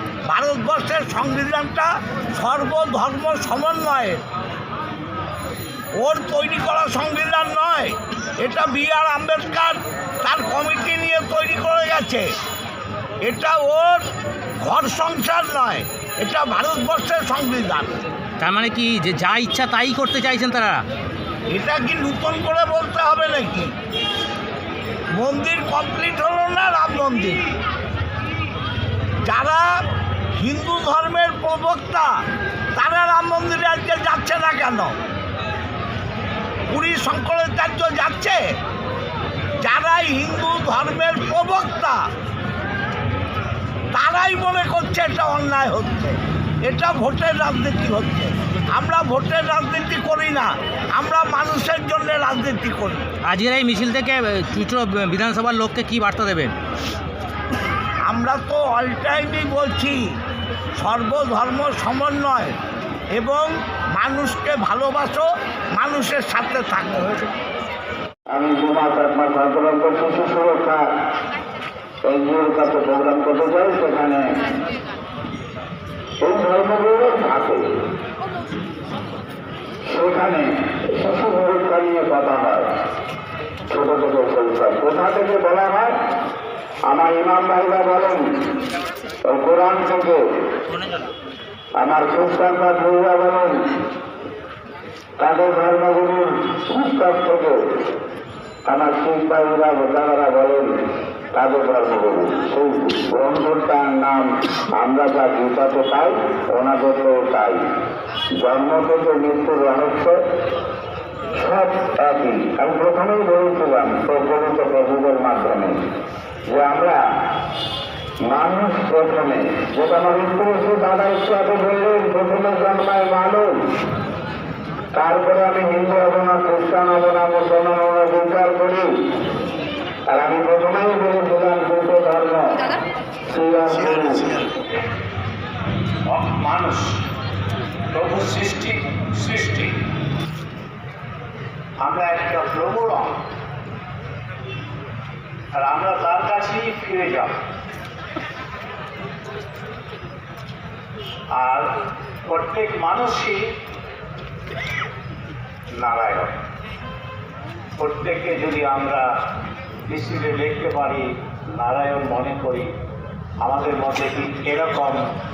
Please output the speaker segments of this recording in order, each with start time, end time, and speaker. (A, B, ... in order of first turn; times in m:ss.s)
0:00.3-0:04.2 A
0:06.0-0:12.3 A
0:13.2-0:14.0 A
0:14.6-0:18.0 A
0:18.4-0:20.8 B
0:21.5-0:23.7 A
0:25.1-0:27.4 A
0:29.2-0:29.7 A
0:30.4-0:32.1 A
0:32.8-0:35.0 A
0:36.7-0:38.4 A
0:39.6-0:42.0 A
0:43.9-0:53.1 A
0:53.2-0:56.6 B
0:58.0-1:00.1 A
1:00.8-1:02.6 A
1:03.1-1:07.2 A
1:08.3-1:10.8 C
1:12.1-1:14.2 C
1:16.2-1:17.6 C
1:19.9-1:22.6 C
1:23.7-1:25.9 C
1:26.9-1:28.2 C
1:29.3-1:30.2 C
1:31.8-1:33.8 C
1:35.2-1:37.6 C
1:38.7-1:40.7 C
1:41.3-1:47.6 C
1:48.4-1:50.2 C
1:51.4-1:55.8 C
1:56.5-1:57.0 C
1:58.3-2:03.5 C
2:05.0-2:08.9 C
2:10.1-2:12.7 C
2:13.3-2:14.4 C
2:16.1-2:17.0 D
2:17.9-2:19.7 D
2:21.8-2:23.2 D
2:25.5-2:27.3 D
2:31.3-2:31.7 D
2:32.2-2:33.4 D
2:35.8-2:36.3 D
2:37.8-2:39.1 D
2:39.9-2:42.7 D
2:43.4-2:45.0 D